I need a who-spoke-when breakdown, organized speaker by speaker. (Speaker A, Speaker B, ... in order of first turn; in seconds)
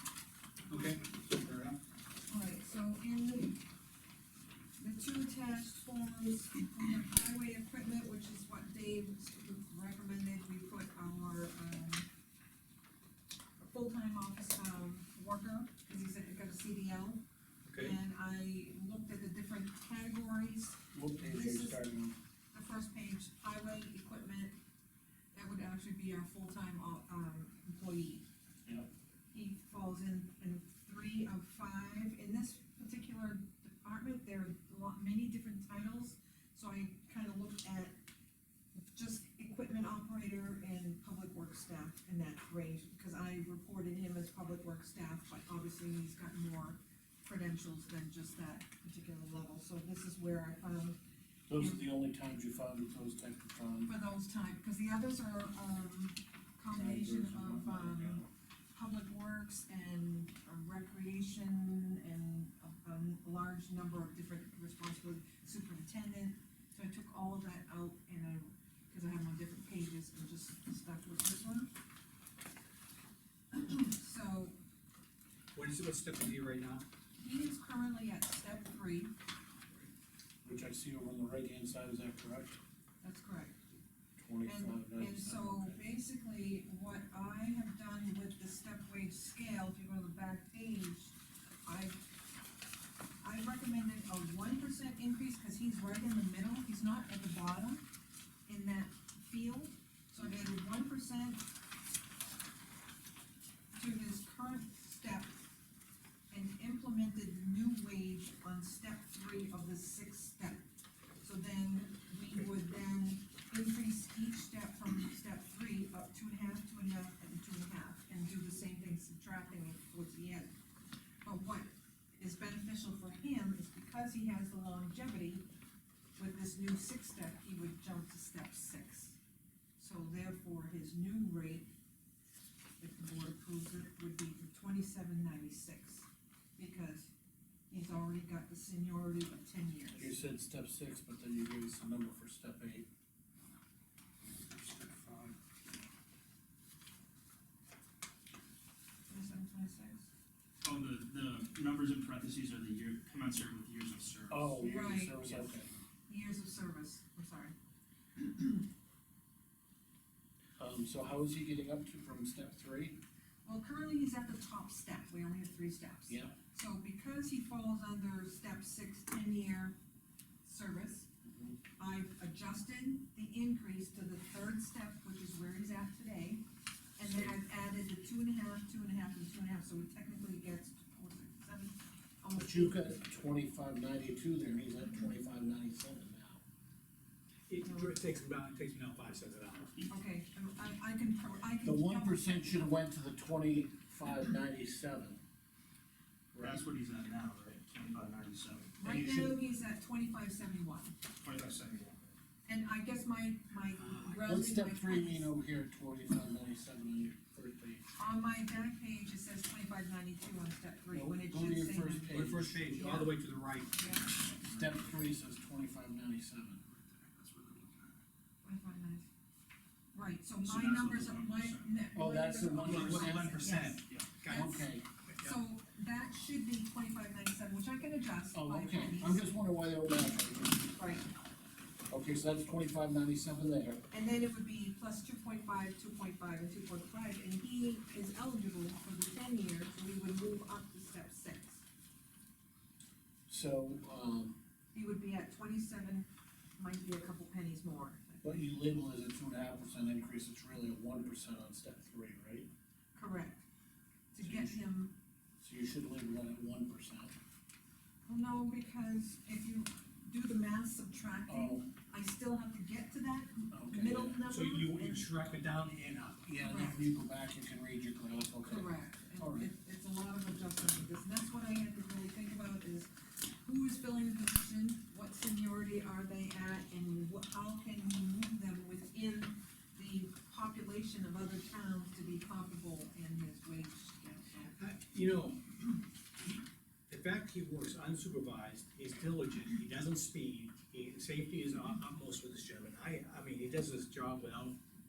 Speaker A: 0.7-1.0, 2.3-3.6, 4.8-12.1, 13.6-17.2, 17.8-21.8, 22.5-24.6, 25.3-28.2, 29.3-38.0, 38.9-51.0, 51.5-51.8, 53.9-71.7, 73.5-74.6, 77.2-79.1, 83.0-83.6, 84.5-92.0, 93.2-97.8, 98.5-101.4, 103.8-105.4, 106.3-110.7, 111.2-120.5, 121.2-125.5, 126.2-129.2, 129.8-131.7, 132.8-137.1, 137.7-140.2, 149.1-150.1, 154.6-155.2, 156.1-157.6, 158.2-158.7, 163.4-169.8, 170.4-171.1, 171.8-176.4, 177.0-182.8, 187.6-187.9, 189.9-192.6, 198.8-200.9, 202.5-205.3, 208.0-213.1, 213.8-214.3, 218.4-219.1, 219.9-224.7, 225.2-229.3, 230.8-231.1, 233.9-241.7, 244.7-248.2, 252.9-253.4, 254.1-254.9, 258.1-265.1, 266.4-266.9, 268.4-284.6
Speaker B: 0.7-1.8, 17.7-18.0, 75.5-76.9, 187.5-189.8, 212.1-213.8, 222.6-224.5, 264.3-266.2, 284.6-285.4, 286.9-294.0
Speaker C: 20.9-22.2, 51.5-53.9, 56.7-58.3, 80.4-82.6, 84.2-85.8, 140.0-142.9, 144.3-145.3, 154.3-155.7, 160.6-163.0, 166.1-166.4, 171.2-171.6, 182.3-186.4, 191.6-195.2, 196.3-196.6, 198.8-199.4, 204.2-207.9, 210.9-213.1, 214.4-216.8, 221.9-223.5, 224.3-224.9, 228.3-230.7, 231.9-233.8, 243.3-244.4, 248.2-252.5, 254.2-254.6, 255.4-257.1, 261.3-261.7, 263.5-264.2, 266.2-269.5
Speaker D: 150.6-154.5, 196.4-198.7, 201.2-202.0, 216.8-218.0, 220.4-221.7, 223.8-224.1, 289.2-289.7, 290.4-290.7, 291.8-292.7, 293.6-294.6